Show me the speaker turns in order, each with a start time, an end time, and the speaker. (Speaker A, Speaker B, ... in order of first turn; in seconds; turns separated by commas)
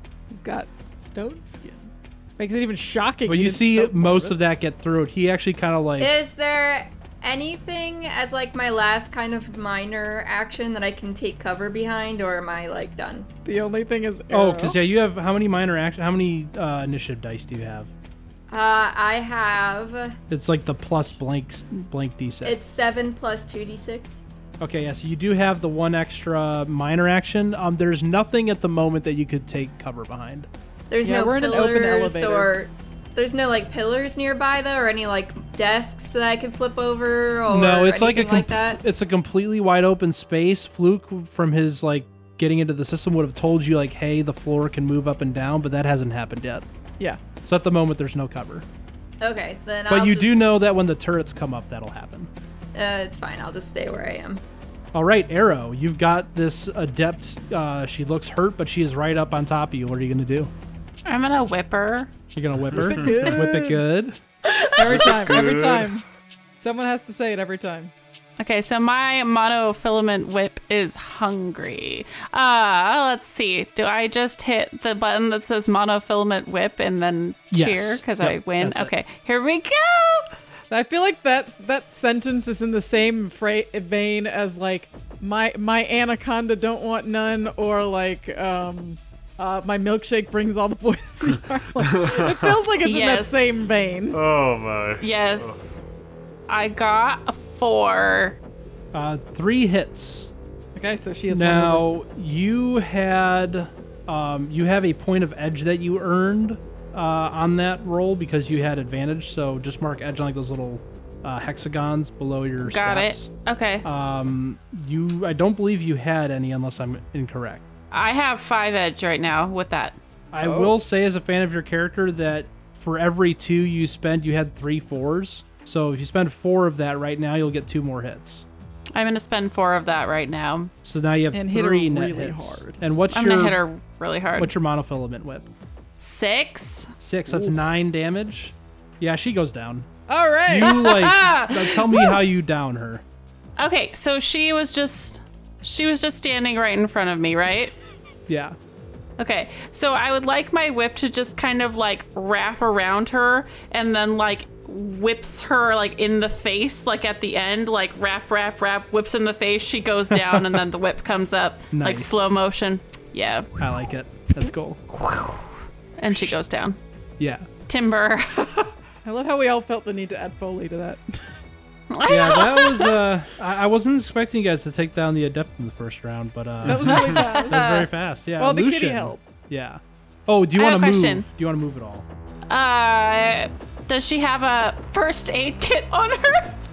Speaker A: 0.3-4.4, Speaker B: 3.2-6.1, Speaker C: 6.0-13.3, Speaker A: 13.4-14.8, Speaker B: 14.3-17.9, Speaker C: 18.5-20.2, Speaker B: 20.3-22.6, Speaker C: 22.4-24.2, Speaker B: 24.6-30.5, Speaker C: 30.9-38.8, Speaker A: 31.0-32.5, Speaker B: 37.5-46.6, Speaker B: 47.4-48.6, Speaker C: 49.2-50.4, Speaker B: 49.9-52.3, Speaker C: 52.7-54.4, Speaker B: 54.9-60.5, Speaker D: 61.0-62.1, Speaker B: 62.3-64.2, Speaker E: 62.7-63.2, Speaker A: 62.7-63.8, Speaker D: 64.6-65.5, Speaker A: 64.7-66.0, Speaker E: 64.8-66.0, Speaker A: 66.6-67.9, Speaker D: 68.4-80.3, Speaker B: 77.5-78.9, Speaker A: 80.7-94.2, Speaker E: 91.8-92.6, Speaker D: 92.8-93.7, Speaker E: 94.1-95.6, Speaker D: 95.0-95.9, Speaker D: 96.5-98.4, Speaker B: 98.9-100.3, Speaker A: 100.7-101.9, Speaker B: 101.3-113.3, Speaker D: 112.6-113.8, Speaker B: 113.8-117.6, Speaker D: 117.9-120.0, Speaker B: 120.3-128.4, Speaker A: 120.4-120.7, Speaker D: 128.9-130.7, Speaker B: 130.8-133.6, Speaker A: 131.3-132.8, Speaker D: 133.1-134.5, Speaker B: 134.4-135.5, Speaker D: 136.0-136.9, Speaker B: 137.0-139.9, Speaker A: 140.1-141.1, Speaker B: 140.5-143.0, Speaker D: 140.6-142.2, Speaker D: 143.6-147.7, Speaker B: 148.3-148.6, Speaker D: 149.2-163.6, Speaker B: 160.1-160.6, Speaker B: 161.7-162.2, Speaker B: 163.6-164.8, Speaker D: 164.9-165.5, Speaker D: 166.0-166.8, Speaker B: 166.1-166.3, Speaker B: 167.2-167.5, Speaker D: 167.7-168.7, Speaker A: 169.0-171.4, Speaker D: 171.9-173.0, Speaker B: 172.0-182.1, Speaker A: 176.6-177.6, Speaker E: 176.7-176.9, Speaker D: 177.2-177.9, Speaker A: 178.4-179.2, Speaker D: 180.6-181.2, Speaker D: 182.5-186.6